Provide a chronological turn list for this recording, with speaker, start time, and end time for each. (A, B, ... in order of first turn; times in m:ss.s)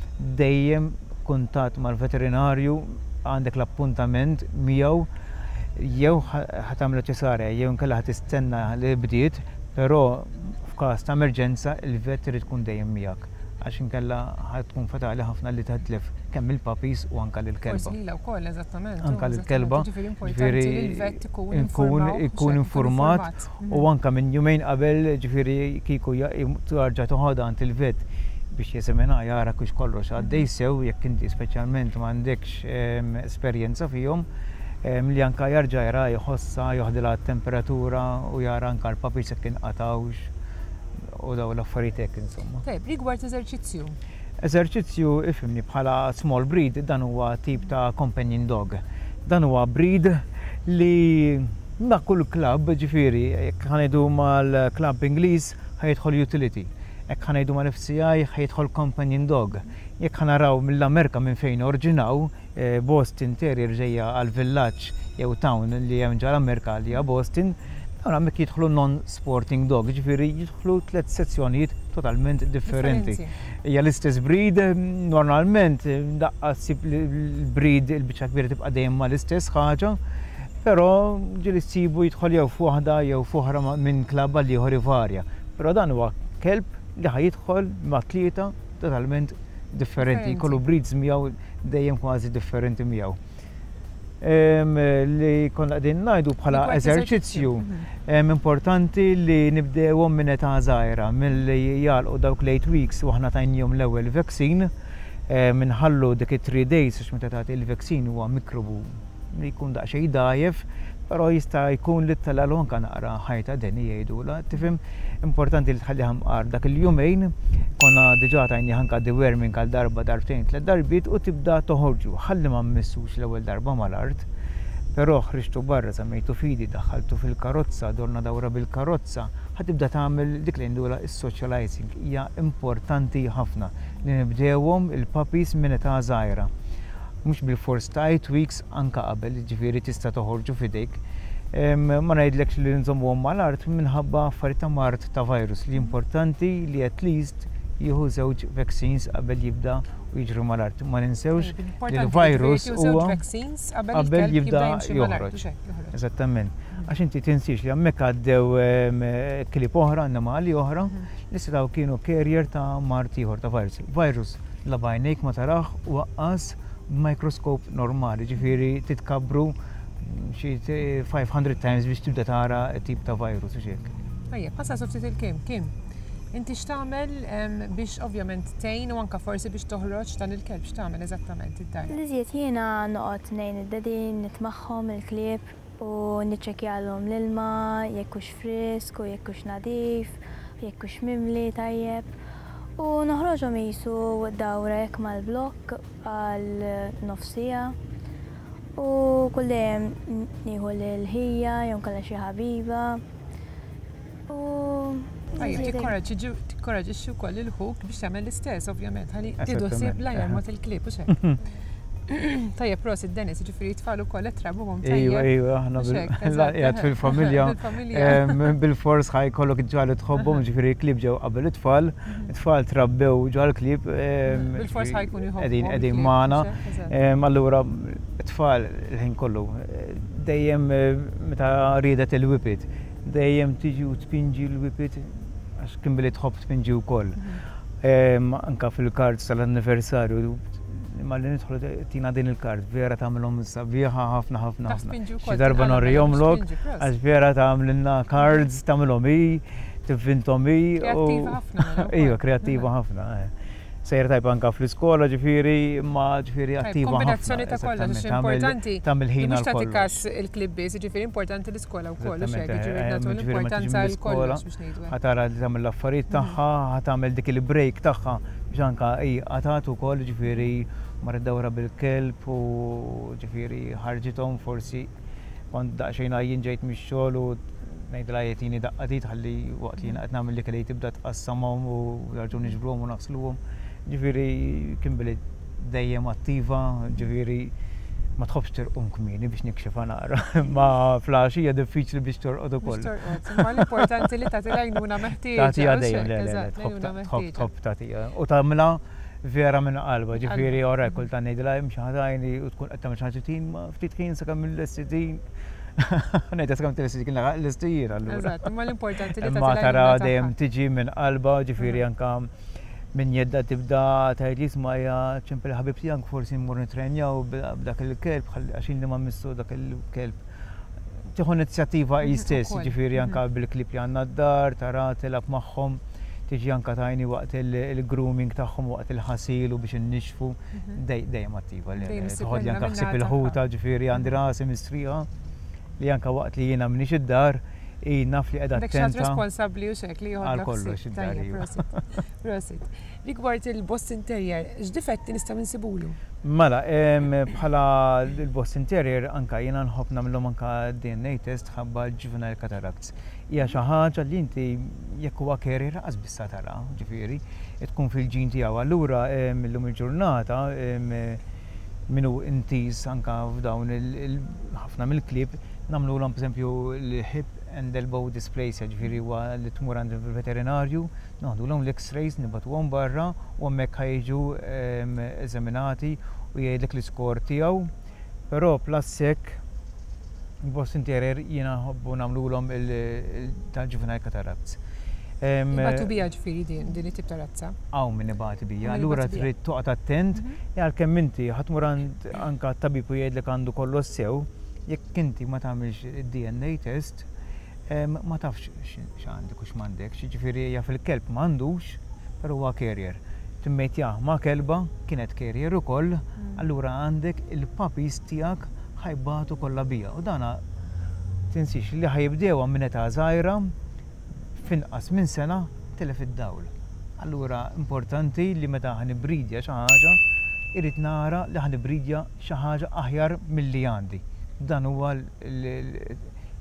0:00.2-0:18.0 A
0:17.7-0:23.9 B
0:19.0-0:34.2 A
0:34.8-0:40.3 A
0:40.9-0:42.6 A
0:42.6-0:44.0 B
0:44.4-1:33.2 A
1:12.6-1:13.3 B
1:30.0-1:30.6 B
1:34.2-1:44.7 A
1:36.5-1:37.9 B
1:45.3-2:04.3 A
2:04.9-2:16.5 A
2:17.2-2:33.2 A
2:31.3-2:35.9 B
2:33.9-2:53.9 A
2:54.3-2:55.7 B
2:56.3-3:01.9 B
3:01.9-3:12.1 C
3:12.8-3:17.8 C
3:18.8-3:23.0 C
3:24.3-3:25.9 C
3:25.4-3:31.2 B
3:29.4-3:30.4 A
3:31.1-3:31.4 A
3:32.1-3:38.6 B
3:34.8-4:20.0 A
3:44.2-3:46.9 B
3:57.2-3:57.4 B
4:04.7-4:06.9 B
4:10.8-4:12.2 B
4:16.6-4:24.9 B
4:22.0-4:34.9 A
4:35.5-4:47.5 A
4:48.2-4:54.1 A
4:52.6-4:57.5 B
4:55.3-5:12.3 A
5:00.2-5:00.6 B
5:08.1-5:10.3 B
5:12.9-5:20.4 A
5:21.0-5:35.1 A
5:22.0-5:23.0 B
5:31.8-5:33.4 B
5:35.8-5:39.2 A
5:38.5-5:46.0 B
5:40.2-5:41.9 A
5:46.2-6:01.2 A
6:01.9-6:17.7 A
6:18.3-6:19.4 A
6:20.4-6:24.6 A
6:25.2-6:25.9 A
6:25.5-6:27.6 B
6:27.7-6:37.1 A
6:28.6-6:29.3 B
6:37.7-6:50.4 A
6:51.3-6:53.5 A
6:54.4-7:00.0 A
7:00.5-7:06.1 A